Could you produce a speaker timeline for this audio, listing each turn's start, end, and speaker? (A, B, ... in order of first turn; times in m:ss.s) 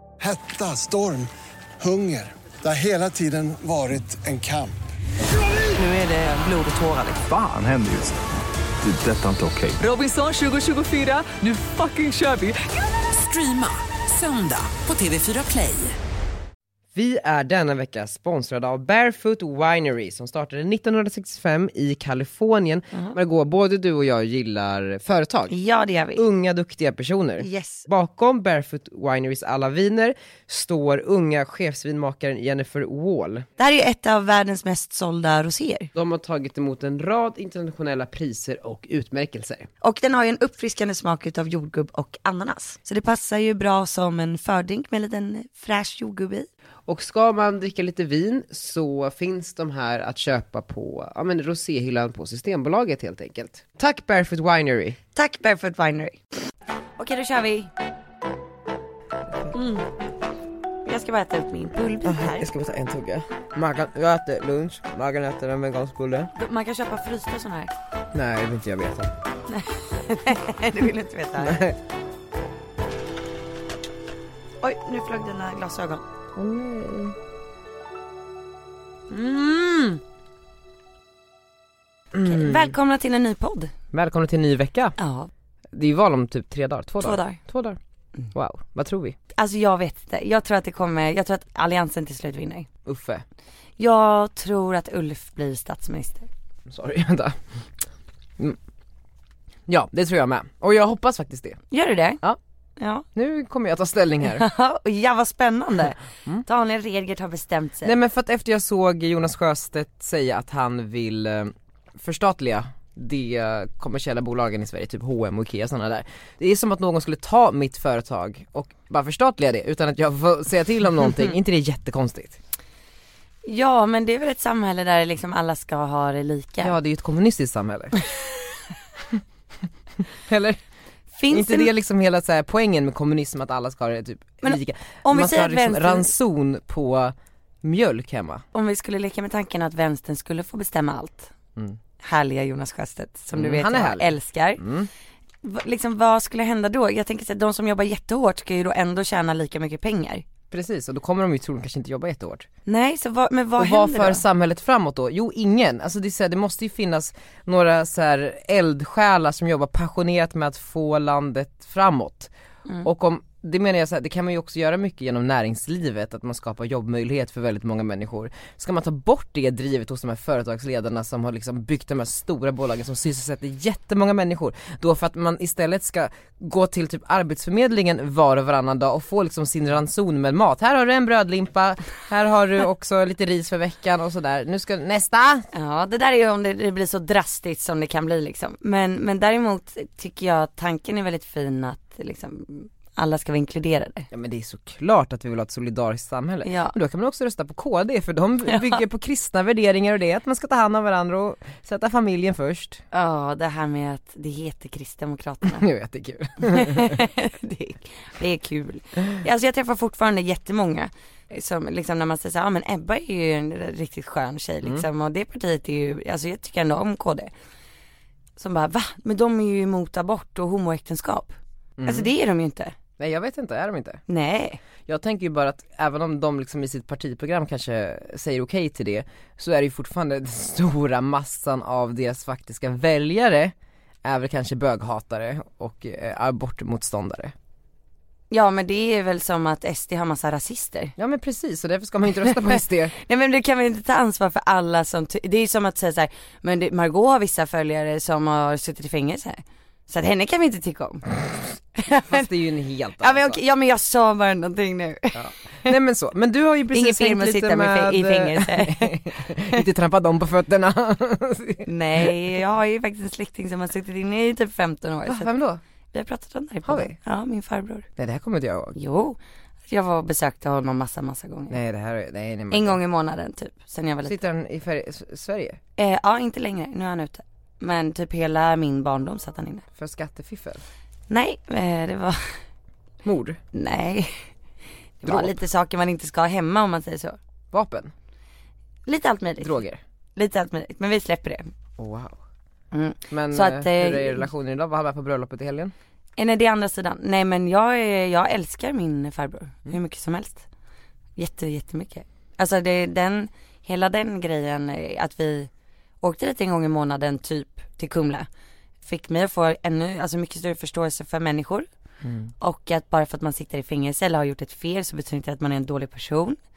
0:00.2-0:01.3 A
0:01.8-0:04.8 A
0:05.7-0:07.2 B
0:07.2-0:08.2 C
0:08.8-0:09.8 C
0:09.8-0:16.0 B
0:16.9-0:25.5 D
0:25.5-0:26.2 E
0:26.2-0:33.4 D
0:27.4-0:27.9 E
0:33.6-0:35.9 E
0:35.9-0:39.7 D
0:39.8-0:46.5 E
0:46.9-0:55.0 D
0:55.1-0:56.2 E
0:57.0-0:57.7 E
0:59.5-0:59.8 E
1:00.8-1:02.5 E
1:02.0-1:06.3 D
1:06.3-1:07.7 E
1:08.1-1:09.1 D
1:09.5-1:11.6 E
1:11.4-1:11.7 D
1:14.6-1:16.0 E
1:16.3-1:17.2 D
1:19.1-1:20.0 E
1:22.1-1:22.7 D
1:22.2-1:23.7 E
1:23.9-1:24.9 D
1:25.0-1:25.3 E
1:25.7-1:27.8 D
1:27.0-1:27.4 E
1:28.3-1:29.2 D
1:29.3-1:32.7 E
1:32.8-1:33.2 D
1:33.8-1:36.3 E
1:36.7-1:37.4 D
1:39.7-1:41.6 D
1:41.7-1:42.2 E
1:42.8-1:43.0 E
1:43.1-1:44.4 D
1:44.3-1:47.9 E
1:47.8-2:02.4 D
2:03.4-2:06.7 E
2:06.6-2:08.0 D
2:10.3-2:10.6 D
2:11.1-2:11.7 E
2:11.3-2:18.4 D
2:14.4-2:16.1 E
2:18.5-2:21.3 E
2:22.0-2:24.6 E
2:23.3-2:24.9 D
2:25.4-2:30.2 E
2:30.5-2:32.4 D
2:32.6-2:34.2 E
2:33.6-2:42.3 D
2:42.8-3:05.5 D
3:05.5-3:14.1 E
3:14.1-3:22.8 D
3:16.4-3:16.7 E
3:18.5-3:18.8 E
3:22.9-3:25.7 E
3:25.5-3:27.0 D
3:26.4-3:37.3 E
3:38.4-3:42.8 E
3:41.8-3:42.1 D
3:43.0-3:44.0 D
3:44.1-3:44.6 E
3:44.8-3:57.3 D
3:58.3-4:00.9 E
4:01.0-4:02.9 D
4:02.2-4:11.1 E
4:11.7-4:12.3 E
4:12.0-4:13.4 D
4:13.0-4:15.7 E
4:15.1-4:22.1 D
4:16.7-4:19.6 E
4:21.6-4:25.3 E
4:25.0-4:25.6 D
4:25.9-4:27.9 E
4:26.6-4:27.0 D
4:28.0-4:28.8 D
4:28.7-4:29.2 E
4:29.7-4:31.6 E
4:31.5-4:32.8 D
4:32.5-4:34.1 E
4:34.0-4:35.6 D
4:35.8-4:39.6 E
4:39.8-4:40.6 D
4:41.1-4:42.4 E
4:43.0-4:43.4 D
4:43.5-4:44.2 E
4:45.0-4:47.2 E
4:45.0-4:45.4 D
4:47.5-4:47.9 D
4:48.8-4:49.6 E
4:49.4-4:49.8 D
4:50.2-4:51.5 E
4:51.8-4:52.2 D
4:52.7-4:54.3 E
4:53.1-4:55.7 D
4:56.2-5:00.4 E
5:01.2-5:05.5 E
5:06.0-5:08.3 E
5:08.8-5:11.7 E
5:12.0-5:12.3 D
5:12.4-5:16.4 E